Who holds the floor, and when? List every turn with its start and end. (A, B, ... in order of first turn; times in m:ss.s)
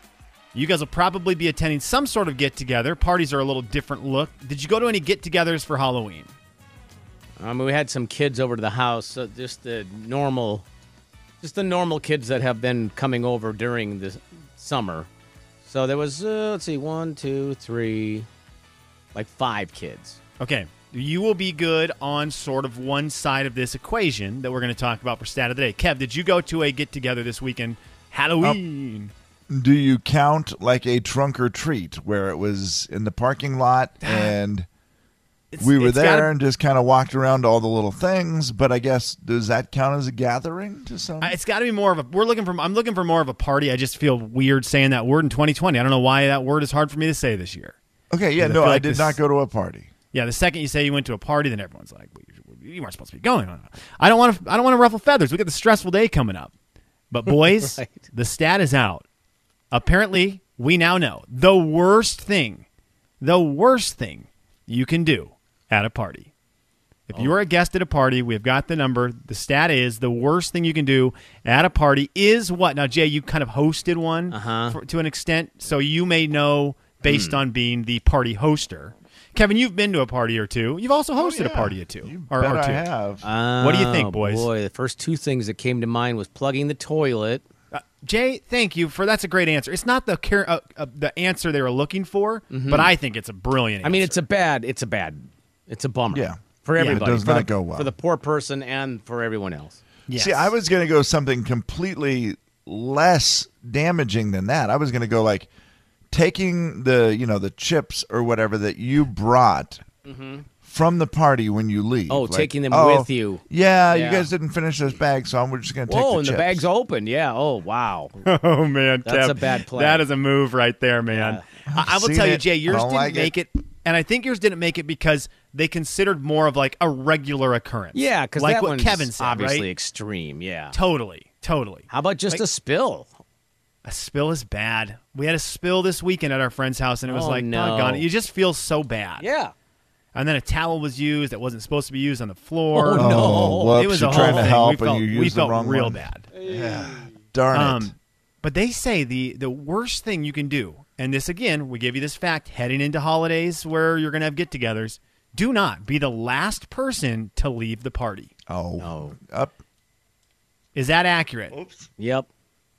0:00.5-0:06.3 A
0:07.4-0:10.6 B
0:11.4-0:15.1 B
0:15.6-0:18.3 B
0:19.1-0:20.2 B
0:20.4-0:29.1 A
0:29.5-0:34.7 C
0:34.0-0:34.3 A
0:35.5-0:36.3 A
0:35.6-0:41.3 C
0:41.2-0:47.8 A
0:48.1-0:49.9 C
0:48.4-0:49.2 A
0:50.1-0:56.5 A
0:57.1-0:59.0 A
0:57.5-0:58.0 B
0:59.7-1:02.6 A
1:03.2-1:06.3 A
1:07.1-1:22.8 A
1:07.1-1:07.4 B
1:14.3-1:14.8 B
1:17.0-1:17.4 B
1:21.2-1:23.2 C
1:23.2-1:27.4 B
1:23.6-1:24.5 A
1:27.7-1:34.2 A
1:32.5-1:32.9 B
1:33.8-1:39.8 B
1:36.1-1:37.9 C
1:36.8-1:37.0 A
1:40.1-1:40.5 A
1:40.1-1:45.5 C
1:46.1-1:49.8 C
1:50.0-1:50.5 B
1:50.6-1:56.6 C
1:52.1-1:54.3 B
1:55.9-1:58.2 B
1:58.2-2:09.7 A
1:59.0-2:00.1 B
2:01.1-2:01.4 B
2:01.7-2:03.3 C
2:07.9-2:10.7 B
2:10.7-2:12.4 A
2:11.9-2:13.1 B
2:13.8-2:19.2 A
2:17.1-2:18.0 B
2:19.2-2:19.5 B
2:20.1-2:26.3 A
2:22.7-2:24.4 B
2:22.9-2:27.9 C
2:26.3-2:27.1 B
2:27.5-2:38.3 A
2:38.5-2:39.6 C
2:38.8-2:39.2 B
2:40.7-2:41.6 A
2:42.0-2:42.3 B